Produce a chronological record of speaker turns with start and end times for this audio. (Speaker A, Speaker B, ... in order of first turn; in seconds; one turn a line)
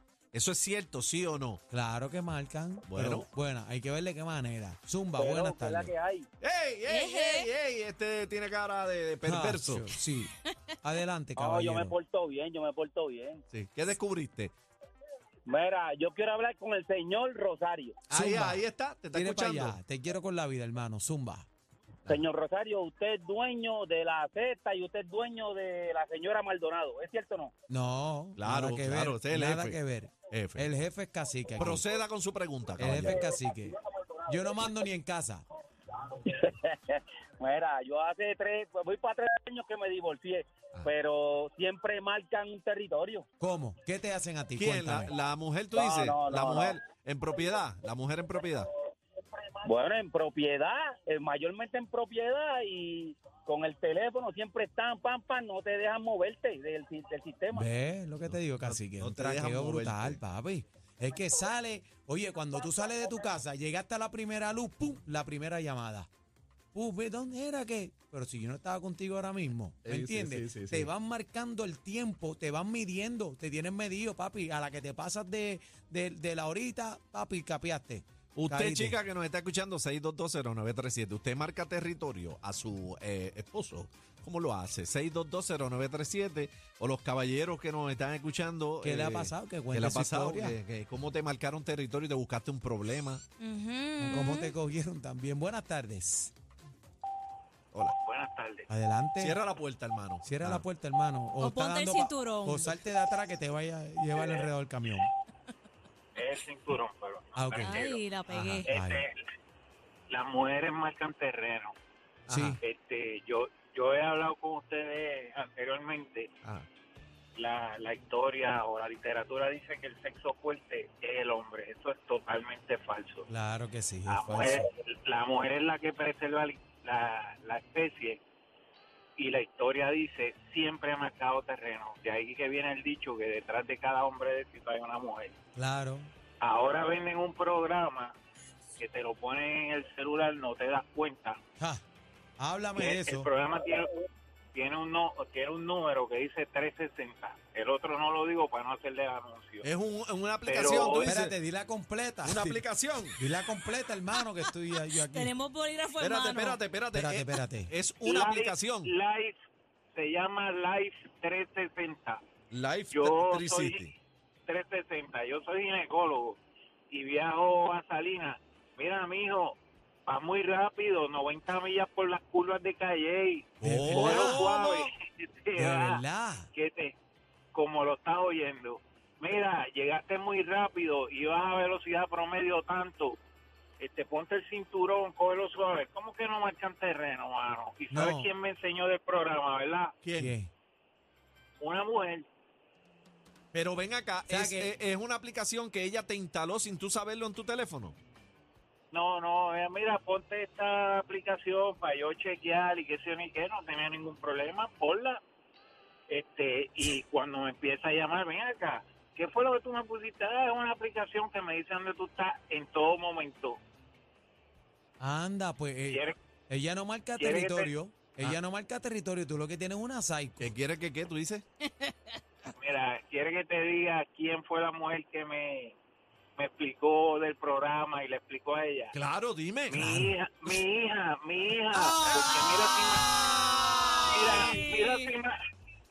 Speaker A: 0.3-1.6
Speaker B: 1.7-5.9
Speaker A: 2.9-3.3
Speaker C: 5.2-6.3
Speaker A: 6.4-9.9
Speaker D: 6.9-7.5
Speaker B: 9.2-11.9
Speaker C: 11.4-13.4
Speaker A: 13.5-14.5
Speaker C: 15.5-18.0
Speaker A: 18.1-19.8
Speaker B: 18.1-21.5
Speaker C: 22.1-27.5
Speaker B: 27.7-31.9
Speaker A: 28.4-29.8
Speaker A: 30.3-30.7
Speaker A: 31.6-33.2
Speaker B: 32.8-33.8
Speaker B: 34.3-35.5
Speaker C: 36.1-43.2
Speaker B: 43.4-45.1
Speaker A: 44.6-48.7
Speaker C: 45.7-46.9
Speaker C: 49.6-57.7
Speaker B: 57.5-66.1
Speaker A: 58.3-60.2
Speaker B: 66.7-79.0
Speaker A: 69.8-70.9
Speaker A: 78.4-93.2
Speaker B: 88.8-90.6
Speaker D: 93.4-94.5
Speaker B: 94.0-96.3
Speaker E: 98.0-98.7
Speaker B: 98.7-99.4
Speaker A: 99.2-100.6
Speaker B: 100.2-105.1
Speaker D: 101.4-102.7
Speaker E: 106.2-108.0
Speaker B: 107.3-109.0
Speaker D: 107.6-108.7
Speaker E: 108.7-109.1
Speaker E: 110.1-111.7
Speaker A: 112.3-112.6
Speaker B: 112.3-112.6
Speaker E: 112.6-116.3
Speaker E: 117.4-123.3
Speaker B: 123.3-124.6
Speaker E: 124.1-128.2
Speaker E: 129.2-135.3
Speaker B: 135.6-136.1
Speaker E: 136.4-138.1
Speaker E: 138.8-141.4
Speaker B: 141.6-141.8
Speaker B: 142.4-143.3
Speaker E: 142.8-143.9
Speaker E: 144.5-149.7
Speaker A: 149.6-151.4
Speaker E: 150.4-151.1
Speaker B: 151.0-152.6
Speaker A: 152.2-153.2
Speaker B: 153.2-155.3
Speaker D: 155.1-156.6
Speaker A: 156.0-158.9
Speaker B: 156.9-157.7
Speaker E: 158.0-159.4
Speaker E: 159.9-162.2
Speaker A: 162.5-163.9
Speaker E: 162.9-163.9
Speaker E: 164.5-166.4
Speaker E: 166.9-176.0
Speaker B: 173.6-174.6
Speaker A: 173.7-174.9
Speaker B: 175.6-176.5
Speaker E: 176.5-177.0
Speaker E: 177.5-183.2
Speaker E: 183.8-189.9
Speaker B: 187.9-188.3
Speaker A: 190.0-190.4
Speaker B: 190.2-190.5
Speaker E: 191.6-192.3
Speaker A: 193.5-198.0
Speaker B: 194.3-194.7
Speaker E: 198.9-205.2
Speaker E: 206.1-213.6
Speaker B: 215.0-220.6
Speaker E: 215.9-216.2
Speaker E: 217.2-217.7
Speaker A: 220.4-221.4
Speaker E: 222.6-225.8
Speaker E: 226.4-228.9
Speaker A: 228.9-229.9
Speaker E: 229.7-233.1
Speaker B: 229.8-230.1
Speaker B: 231.8-234.6
Speaker A: 232.0-234.7
Speaker E: 234.1-235.3
Speaker D: 234.2-235.1